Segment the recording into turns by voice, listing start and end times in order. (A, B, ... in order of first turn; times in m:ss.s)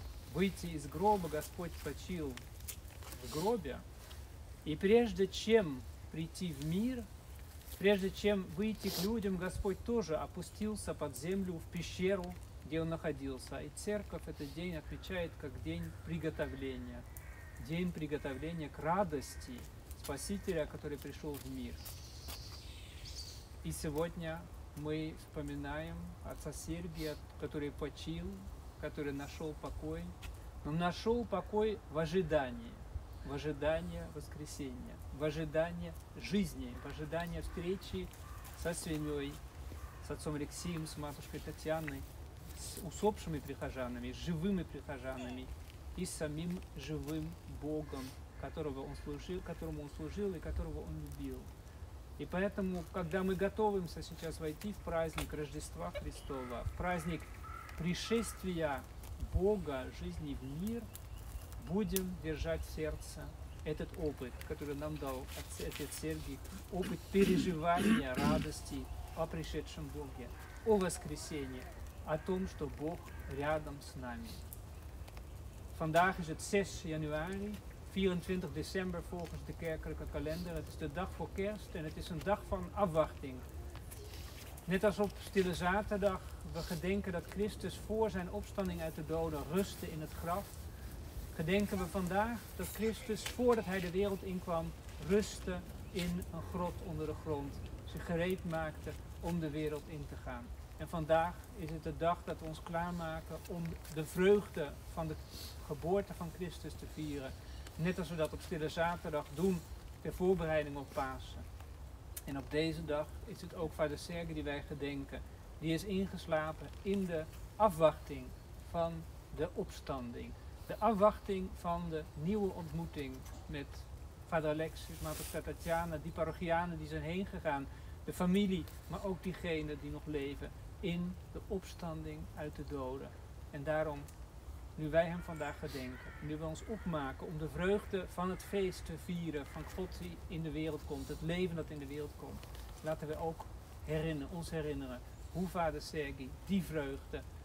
0:00.3-0:02.4 A
0:03.1-0:03.8 A
0:04.6-0:07.1 A
0:07.7-0:17.1 A
0:17.6-0:21.8 A
0:23.6-0:39.4 A
0:40.0-0:51.5 A
0:52.2-1:00.9 A
1:01.6-1:14.4 A
1:15.7-1:23.5 A
1:24.6-1:30.6 A
1:31.3-1:51.5 A
1:52.2-2:14.1 A
2:14.8-2:27.2 A